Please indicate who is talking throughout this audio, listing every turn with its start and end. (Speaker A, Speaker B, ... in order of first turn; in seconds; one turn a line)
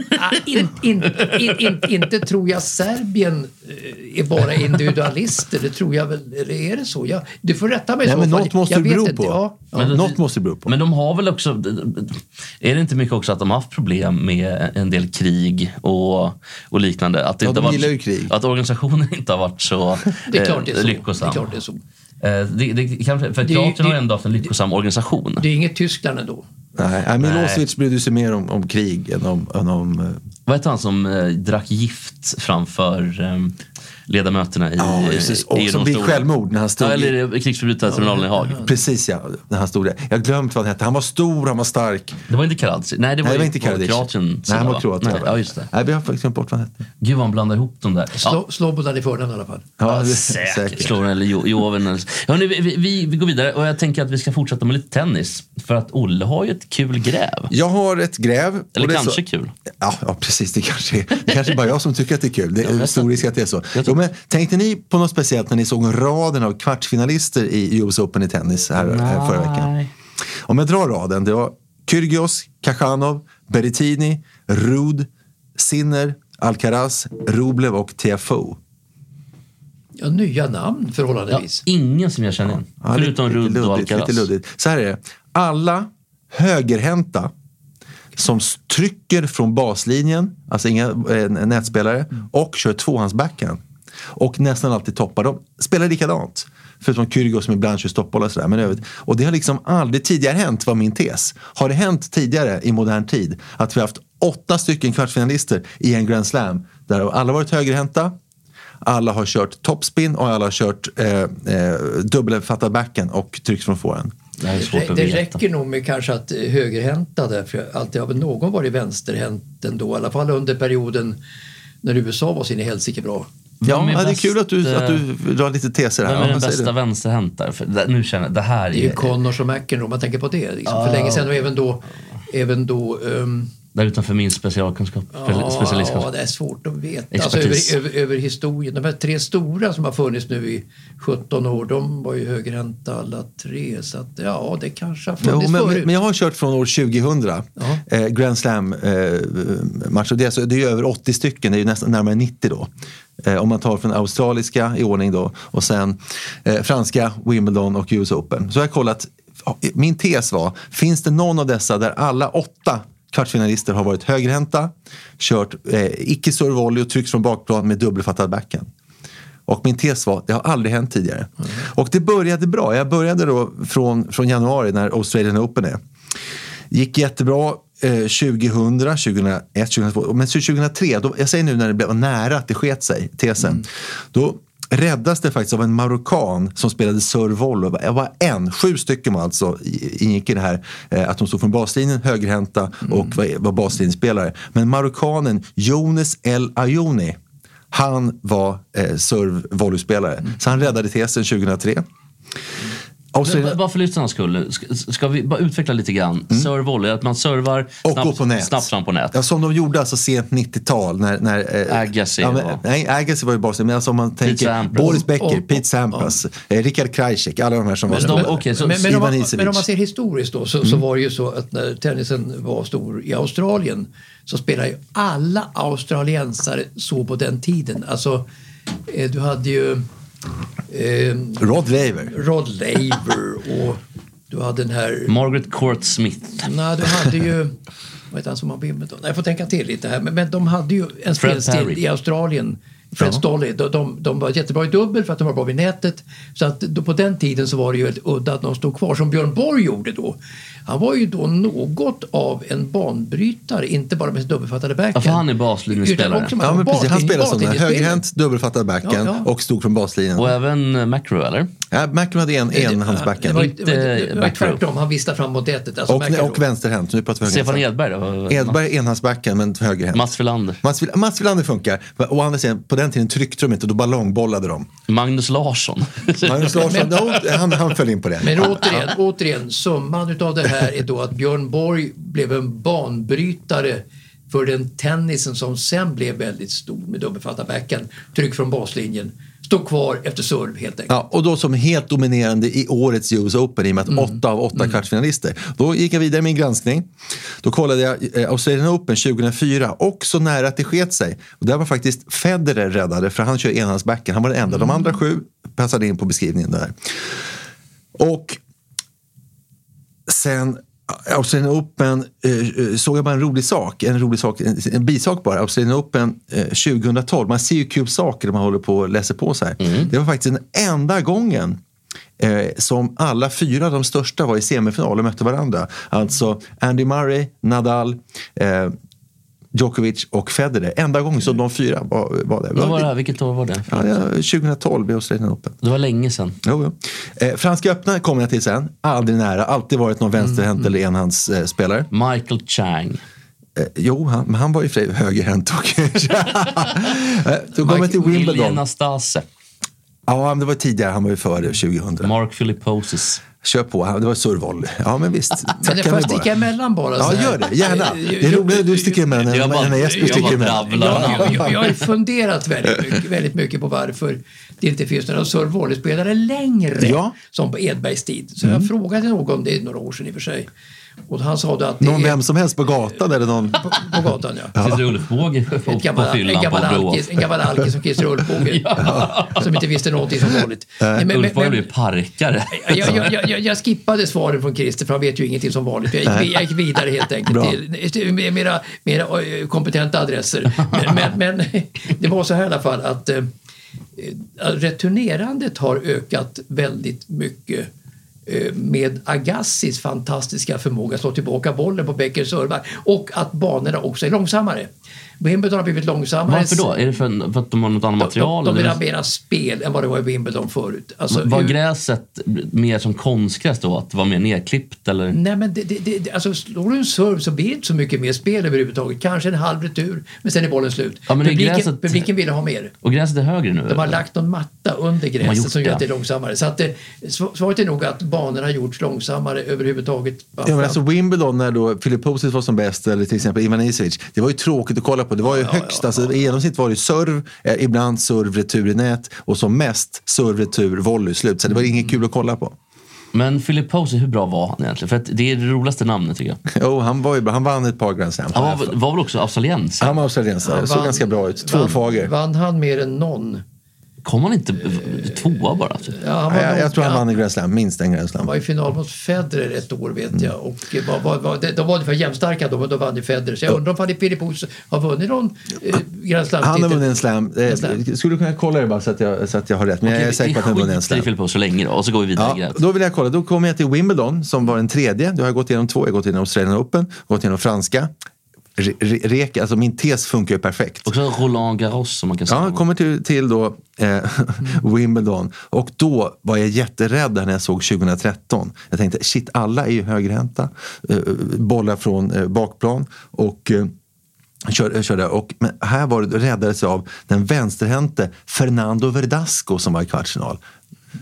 Speaker A: 0.1-9.9
Speaker B: 8.0-10.7
Speaker C: 9.8-21.5
Speaker B: 17.4-18.3
Speaker A: 20.3-21.8
Speaker C: 22.2-25.5
Speaker A: 23.4-24.0
Speaker A: 25.4-26.4
Speaker B: 26.8-30.2
Speaker C: 27.2-27.6
Speaker C: 30.5-33.5
Speaker C: 34.1-36.3
Speaker B: 34.8-37.1
Speaker C: 36.8-38.6
Speaker A: 37.9-38.7
Speaker B: 38.6-42.2
Speaker C: 42.3-45.7
Speaker B: 43.2-46.8
Speaker C: 47.0-48.4
Speaker A: 48.2-49.7
Speaker B: 49.8-50.9
Speaker C: 49.9-57.5
Speaker B: 57.5-59.2
Speaker C: 58.8-59.5
Speaker B: 59.8-69.7
Speaker C: 62.6-63.1
Speaker C: 68.8-69.9
Speaker B: 70.5-78.6
Speaker A: 80.0-81.6
Speaker C: 81.3-84.3
Speaker B: 82.8-87.3
Speaker B: 88.2-93.6
Speaker B: 94.1-108.1
Speaker B: 108.8-114.1
Speaker C: 114.4-115.4
Speaker A: 114.5-121.2
Speaker A: 121.8-123.3
Speaker C: 123.6-125.0
Speaker B: 123.6-126.7
Speaker C: 126.0-129.1
Speaker A: 128.7-133.5
Speaker C: 130.7-131.5
Speaker C: 133.7-136.1
Speaker A: 135.1-145.9
Speaker C: 137.1-137.8
Speaker B: 145.2-152.7
Speaker A: 147.6-147.8
Speaker B: 153.2-168.7
Speaker B: 169.5-175.8
Speaker B: 176.7-197.2
Speaker B: 197.7-201.8
Speaker B: 203.1-203.6
Speaker C: 203.2-209.1
Speaker B: 207.8-219.6
Speaker C: 211.7-212.6
Speaker C: 214.2-215.0
Speaker A: 214.8-216.1
Speaker C: 217.9-218.8
Speaker A: 217.9-228.3
Speaker A: 228.9-229.8
Speaker A: 230.7-231.6
Speaker B: 231.4-232.1
Speaker A: 232.1-235.1
Speaker C: 235.1-236.5
Speaker A: 236.4-237.6
Speaker A: 238.1-258.0
Speaker C: 241.2-241.8
Speaker C: 254.9-256.3
Speaker B: 256.4-260.4
Speaker A: 258.8-259.3
Speaker C: 260.1-261.5
Speaker B: 261.7-263.5
Speaker A: 262.5-266.4
Speaker C: 263.3-264.6
Speaker B: 265.9-267.6
Speaker C: 267.2-268.6
Speaker B: 268.3-274.7
Speaker C: 269.9-270.6
Speaker C: 274.9-277.4
Speaker B: 276.2-278.9
Speaker A: 276.7-276.9
Speaker A: 278.2-290.9
Speaker B: 290.9-296.9
Speaker A: 293.9-294.8
Speaker B: 297.4-306.7
Speaker B: 307.9-308.4
Speaker B: 310.1-321.6
Speaker C: 319.6-319.9
Speaker B: 322.2-328.7
Speaker B: 329.5-332.9
Speaker C: 332.5-333.9
Speaker B: 333.7-335.6
Speaker C: 335.6-336.4
Speaker B: 336.4-341.9
Speaker C: 341.9-343.0
Speaker B: 343.6-348.6
Speaker C: 347.6-349.2
Speaker B: 350.1-352.1
Speaker C: 352.0-353.2
Speaker B: 353.4-356.3
Speaker A: 355.6-359.0
Speaker B: 357.0-361.5
Speaker C: 359.2-361.8
Speaker A: 359.8-370.5
Speaker B: 366.8-367.1
Speaker B: 368.4-368.7
Speaker A: 371.1-372.2
Speaker B: 371.8-373.8
Speaker A: 373.5-374.6
Speaker B: 374.5-374.8
Speaker C: 374.6-377.2
Speaker A: 375.6-381.7
Speaker C: 378.4-379.4
Speaker B: 378.8-379.2
Speaker B: 380.8-381.1
Speaker C: 381.0-383.1
Speaker A: 382.5-393.3
Speaker B: 386.0-386.5
Speaker B: 387.2-387.6
Speaker A: 394.0-397.7
Speaker A: 398.2-406.6
Speaker C: 406.3-408.8
Speaker A: 408.0-411.6
Speaker C: 411.1-415.2
Speaker A: 415.1-422.7
Speaker C: 421.1-422.1
Speaker C: 422.8-424.0
Speaker A: 423.7-430.8
Speaker C: 425.2-425.8
Speaker B: 430.4-442.5
Speaker A: 435.2-436.1
Speaker C: 443.1-446.4
Speaker B: 446.5-448.8
Speaker C: 448.3-450.0
Speaker B: 449.8-452.1
Speaker A: 450.4-453.4
Speaker C: 454.0-456.0
Speaker A: 455.9-457.1
Speaker B: 456.3-458.3
Speaker A: 458.2-467.0
Speaker B: 466.4-471.1
Speaker A: 467.5-467.8
Speaker C: 469.8-472.6
Speaker B: 472.1-477.9
Speaker B: 478.6-480.9
Speaker C: 480.9-482.6
Speaker B: 482.3-493.7
Speaker B: 494.4-500.4